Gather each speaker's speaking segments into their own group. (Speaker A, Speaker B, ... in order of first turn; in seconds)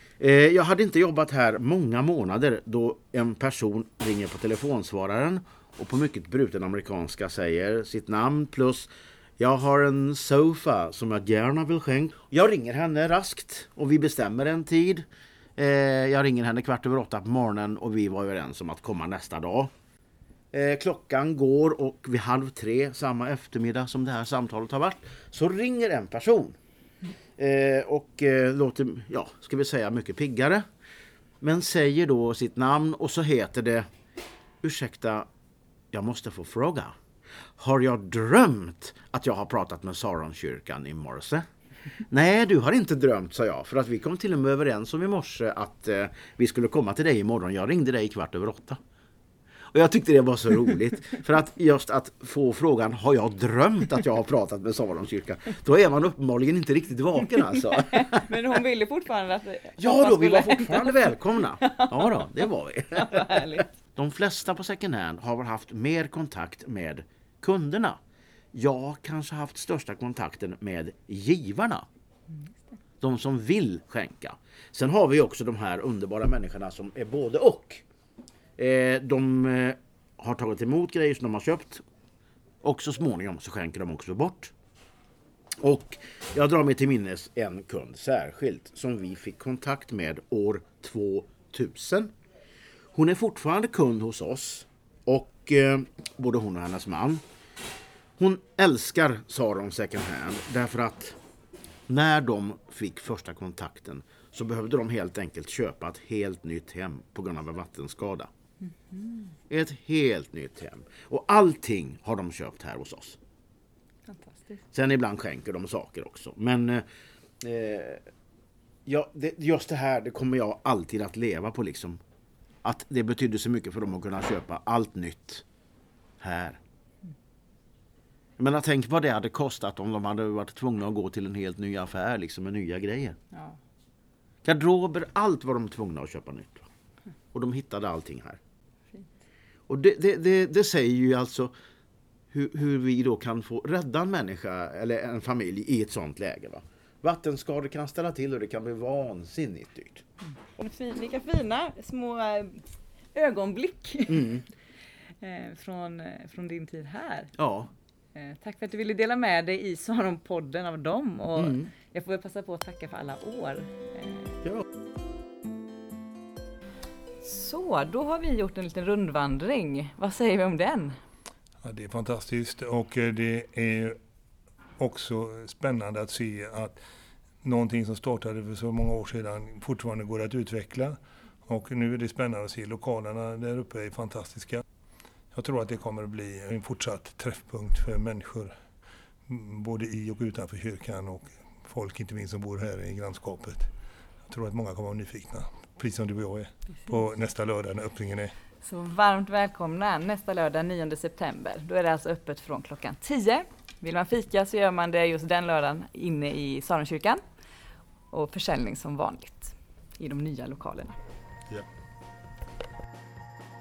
Speaker A: 0.2-15.1, 15.6-19.7, 20.5-26.6, 27.4-30.6, 31.4-33.9, 34.6-35.3, 35.9-37.0, 37.6-41.5, 42.0-48.8, 49.7-58.2, 59.8-63.4, 63.9-68.0, 68.5-71.8, 73.0-77.8, 78.6-81.8, 82.6-84.5, 85.6-92.1, 92.9-97.2, 98.2-101.2, 101.9-108.3, 109.5-113.2, 114.7-116.8, 117.4-118.0, 118.8-122.0, 122.6-125.4, 126.2-126.6, 128.4-133.2, 134.4-136.7, 137.3-138.4, 139.7-141.5, 142.3-150.0, 154.1-154.4, 157.4-157.7, 161.4-161.7
Speaker B: 57.4-62.4, 62.9-63.7, 108.6-109.3, 114.1-114.6, 133.3-133.6, 150.4-154.4, 155.2-157.3, 158.1-164.4, 167.2-171.0, 198.6-207.2, 208.1-210.9
Speaker C: 171.6-173.9, 174.8-176.8, 177.4-184.6, 185.3-188.5, 189.3-193.7, 194.2-198.3